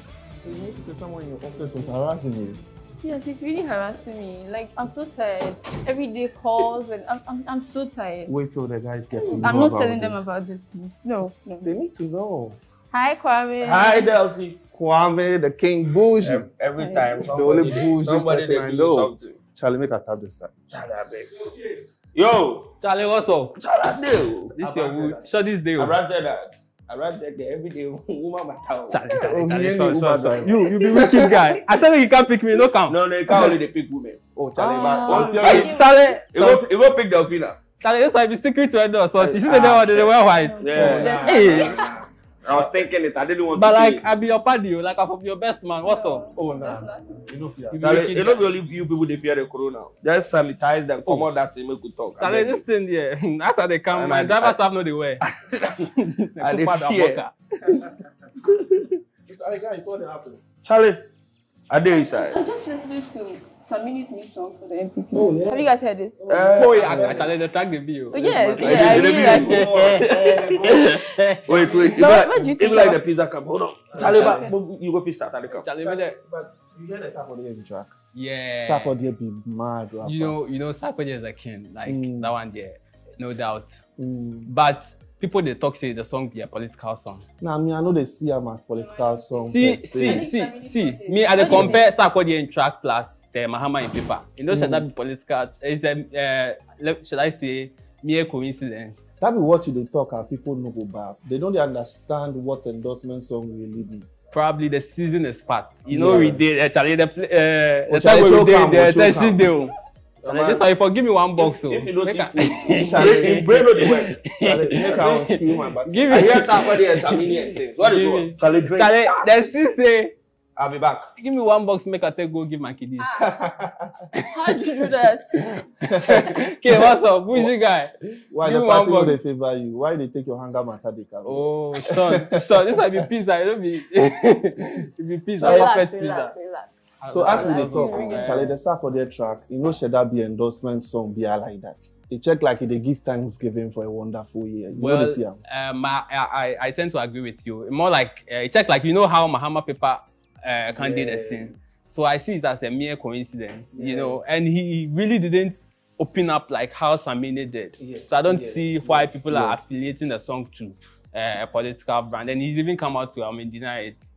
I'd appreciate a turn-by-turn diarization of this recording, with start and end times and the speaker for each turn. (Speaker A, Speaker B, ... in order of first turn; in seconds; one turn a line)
Speaker A: 0.4-2.6
Speaker B: 3.0-8.3
Speaker A: 8.3-10.3
Speaker B: 9.2-11.8
Speaker A: 11.6-12.6
Speaker B: 12.9-14.1
Speaker C: 13.6-14.6
Speaker A: 14.7-16.5
Speaker C: 16.2-19.4
Speaker B: 16.8-17.2
Speaker A: 17.2-20.5
Speaker C: 20.7-22.7
Speaker D: 22.8-23.6
Speaker C: 23.6-25.2
Speaker D: 24.6-26.0
Speaker C: 25.8-29.0
Speaker D: 28.9-33.0
Speaker A: 29.1-31.4
Speaker C: 32.9-34.2
Speaker A: 34.4-35.8
Speaker B: 34.6-36.0
Speaker D: 34.8-36.2
Speaker C: 34.9-35.7
Speaker C: 36.3-37.6
Speaker A: 36.3-36.7
Speaker D: 37.8-41.9
Speaker C: 39.2-44.0
Speaker B: 40.2-41.9
Speaker A: 40.7-41.9
Speaker D: 43.5-46.3
Speaker B: 45.8-47.2
Speaker A: 46.4-48.1
Speaker D: 47.7-48.5
Speaker C: 47.8-52.6
Speaker D: 52.2-57.3
Speaker C: 53.9-54.6
Speaker C: 55.2-55.9
Speaker C: 56.4-57.2
Speaker A: 57.7-57.9
Speaker A: 59.3-60.4
Speaker C: 60.6-61.0
Speaker C: 61.7-62.4
Speaker B: 61.9-66.2
Speaker A: 65.1-67.3
Speaker C: 66.3-67.2
Speaker D: 66.6-72.0
Speaker B: 68.1-70.0
Speaker C: 68.6-70.8
Speaker A: 69.3-71.1
Speaker C: 71.5-75.7
Speaker B: 71.8-73.0
Speaker A: 74.0-74.4
Speaker D: 74.0-74.5
Speaker B: 74.0-74.5
Speaker D: 75.6-76.2
Speaker A: 75.7-77.9
Speaker D: 78.2-79.0
Speaker A: 78.5-80.3
Speaker D: 80.0-83.8
Speaker A: 81.8-82.3
Speaker A: 84.0-84.5
Speaker D: 84.5-87.2
Speaker A: 87.4-90.3
Speaker D: 89.4-99.0
Speaker B: 89.9-91.9
Speaker A: 91.4-91.8
Speaker A: 94.5-94.9
Speaker A: 99.2-104.1
Speaker D: 104.3-109.7
Speaker A: 105.9-106.4
Speaker A: 107.9-109.5
Speaker C: 110.2-110.7
Speaker D: 110.2-120.1
Speaker C: 111.4-115.0
Speaker A: 112.8-113.8
Speaker A: 114.3-116.7
Speaker C: 116.1-119.9
Speaker C: 120.6-121.1
Speaker D: 121.2-123.1
Speaker B: 123.0-123.4
Speaker A: 123.2-124.0
Speaker D: 124.1-129.2
Speaker B: 124.2-125.5
Speaker A: 125.9-127.5
Speaker A: 128.3-132.3
Speaker D: 131.2-136.3
Speaker B: 135.4-136.7
Speaker A: 135.4-135.7
Speaker D: 137.0-138.6
Speaker A: 137.1-145.4
Speaker B: 137.3-138.4
Speaker D: 144.8-164.0
Speaker A: 150.7-151.6
Speaker A: 153.7-154.2
Speaker A: 157.8-159.6